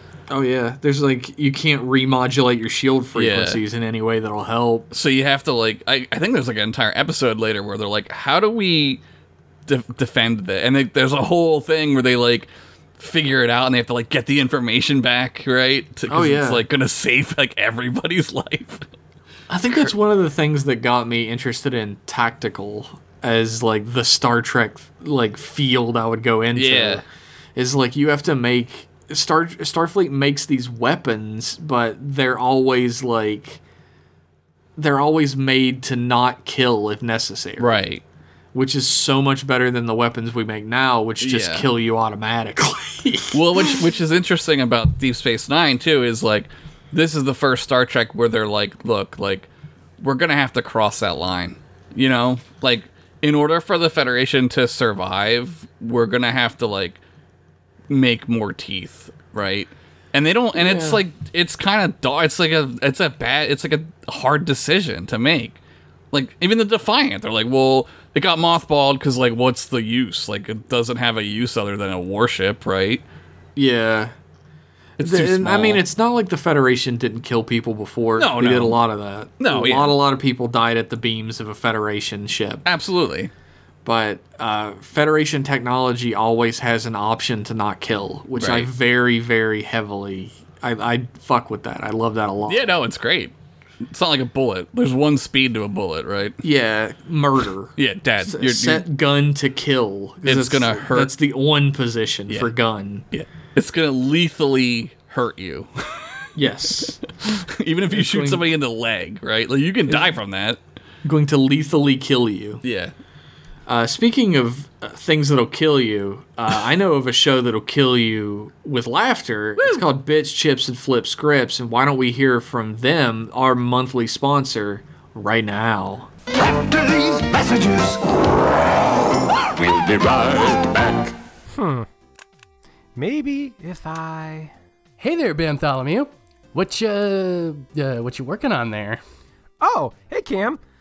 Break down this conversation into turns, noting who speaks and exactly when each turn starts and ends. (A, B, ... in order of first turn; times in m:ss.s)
0:00.3-0:04.9 A
0:03.1-0:03.6 B
0:04.9-0:09.0 B
0:09.7-0:18.8 B
0:16.1-0:16.6 A
0:19.5-0:33.6 A
0:26.6-0:27.0 B
0:34.8-0:37.8 A
0:37.6-0:38.0 B
0:38.5-0:43.8 A
0:41.2-0:41.7 B
0:43.3-0:49.5 B
0:50.0-0:57.0 B
0:57.9-1:05.6 B
1:00.6-1:01.0 A
1:06.1-1:13.0 B
1:13.6-1:14.1 A
1:15.0-1:15.8 B
1:15.0-1:22.6 A
1:18.2-1:18.8 B
1:19.4-1:20.0 B
1:22.6-1:23.3 B
1:23.8-1:32.8 A
1:28.4-1:28.7 B
1:32.5-1:36.4 B
1:36.4-1:43.1 A
1:37.8-1:38.8 B
1:40.2-1:41.1 B
1:43.1-1:46.1 B
1:46.4-1:47.0 A
1:47.2-1:50.6 B
1:47.9-1:48.4 A
1:49.9-1:50.1 A
1:51.0-1:52.6 A
1:52.6-1:52.9 B
1:53.7-2:06.1 A
1:59.6-1:59.8 B
2:06.3-2:08.3 C
2:09.4-2:11.1 C
2:11.5-2:11.9 D
2:13.0-2:14.5 D
2:15.0-2:19.0 E
2:19.6-2:20.6 D